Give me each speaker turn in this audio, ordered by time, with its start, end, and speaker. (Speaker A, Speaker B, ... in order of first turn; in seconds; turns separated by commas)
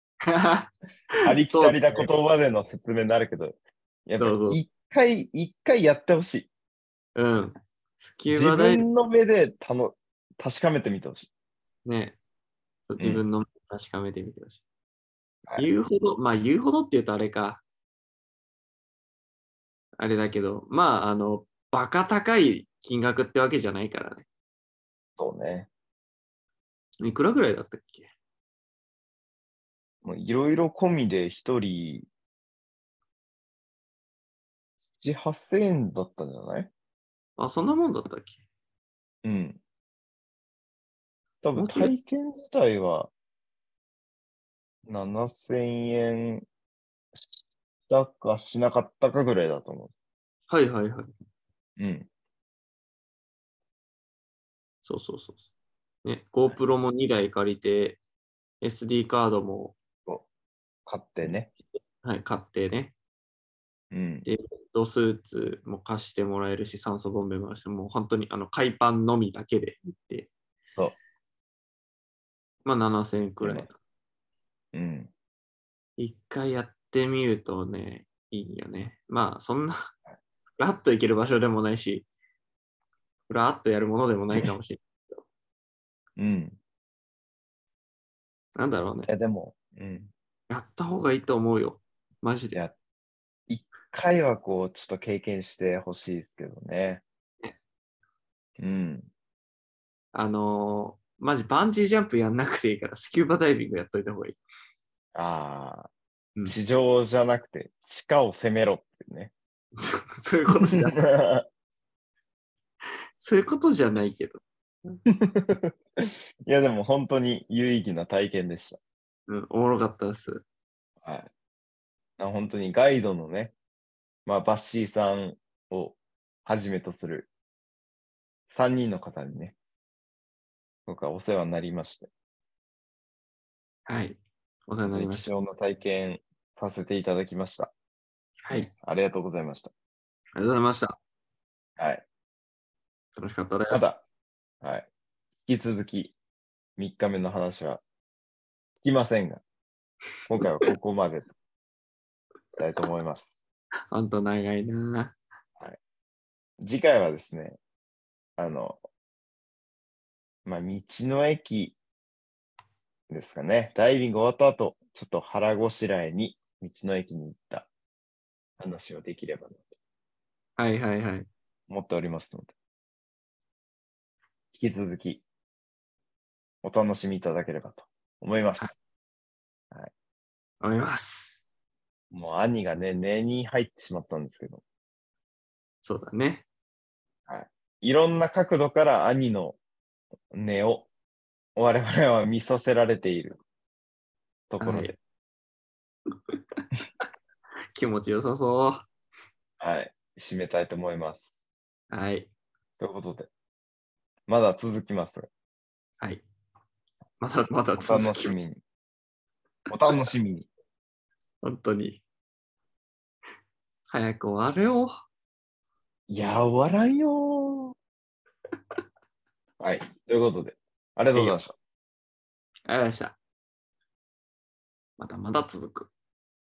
Speaker A: 0.2-0.7, Speaker B: 1.2-6.5, Speaker A: 1.4-2.1, Speaker A: 4.2-4.6, Speaker A: 7.2-8.8, Speaker B: 8.3-11.3, Speaker A: 11.8-12.2, Speaker A: 12.9-14.6, Speaker A: 15.6-17.6, Speaker A: 20.0-24.2, Speaker B: 25.2-25.7, Speaker A: 27.0-28.1, Speaker B: 30.0-32.1, Speaker B: 35.0-36.7, Speaker A: 37.4-38.4, Speaker B: 39.2-39.6, Speaker B: 41.4-43.1, Speaker A: 41.5-41.9, Speaker B: 44.8-46.5, Speaker B: 47.9-49.9, Speaker A: 50.5-51.1, Speaker B: 51.8-52.1, Speaker A: 54.8-55.4, Speaker A: 56.0-58.0, Speaker A: 58.6-59.8, Speaker B: 60.9-61.5, Speaker A: 62.0-62.9, Speaker B: 63.9-64.2, Speaker A: 64.2-70.3, Speaker A: 72.6-73.7, Speaker B: 74.7-75.1, Speaker A: 76.0-79.9, Speaker A: 80.6-82.0, Speaker A: 83.3-85.2, Speaker B: 86.2-86.6, Speaker A: 88.5-89.1, Speaker B: 89.1-90.1, Speaker A: 90.5-92.6, Speaker B: 93.5-97.0, Speaker B: 98.6-99.1, Speaker A: 100.1-104.4, Speaker B: 105.1-105.9, Speaker B: 106.5-109.3, Speaker A: 109.8-111.0, Speaker B: 110.6-111.5, Speaker A: 113.2-115.0, Speaker B: 115.1-118.8, Speaker A: 119.3-120.4, Speaker B: 121.0-121.3, Speaker B: 122.2-123.5, Speaker B: 124.2-127.3, Speaker B: 128.5-129.6, Speaker B: 130.9-132.1, Speaker A: 133.9-135.3, Speaker B: 134.9-137.7, Speaker A: 138.4-138.7, Speaker B: 138.5-139.7, Speaker A: 140.3-141.0, Speaker B: 141.8-142.0, Speaker A: 143.2-143.9, Speaker B: 143.7-144.0, Speaker B: 144.6-144.9, Speaker B: 145.4-146.1, Speaker B: 146.8-147.8, Speaker B: 148.8-149.4, Speaker B: 150.3-151.3, Speaker B: 152.6-153.3, Speaker A: 153.9-155.2, Speaker B: 156.6-157.6, Speaker B: 158.4-158.8, Speaker B: 160.4-161.8, Speaker B: 163.1-167.7, Speaker B: 168.6-169.7, Speaker A: 170.6-171.3, Speaker B: 171.7-172.5, Speaker B: 174.5-175.2, Speaker B: 176.6-178.8, Speaker A: 180.6-181.4, Speaker B: 182.1-184.6, Speaker A: 185.8-186.4, Speaker B: 187.3-189.6, Speaker B: 190.3-190.9, Speaker B: 191.6-193.4, Speaker B: 194.5-194.9, Speaker A: 194.6-194.9, Speaker A: 197.7-198.9, Speaker B: 199.6-201.3, Speaker A: 201.9-202.3, Speaker B: 202.8-203.3, Speaker B: 204.3-205.3, Speaker A: 207.2-208.3, Speaker B: 207.8-208.6, Speaker B: 209.7-210.5, Speaker A: 211.4-212.0, Speaker A: 213.9-214.9, Speaker B: 216.1-217.7, Speaker B: 219.6-221.6, Speaker A: 222.7-223.2, Speaker A: 225.0-225.9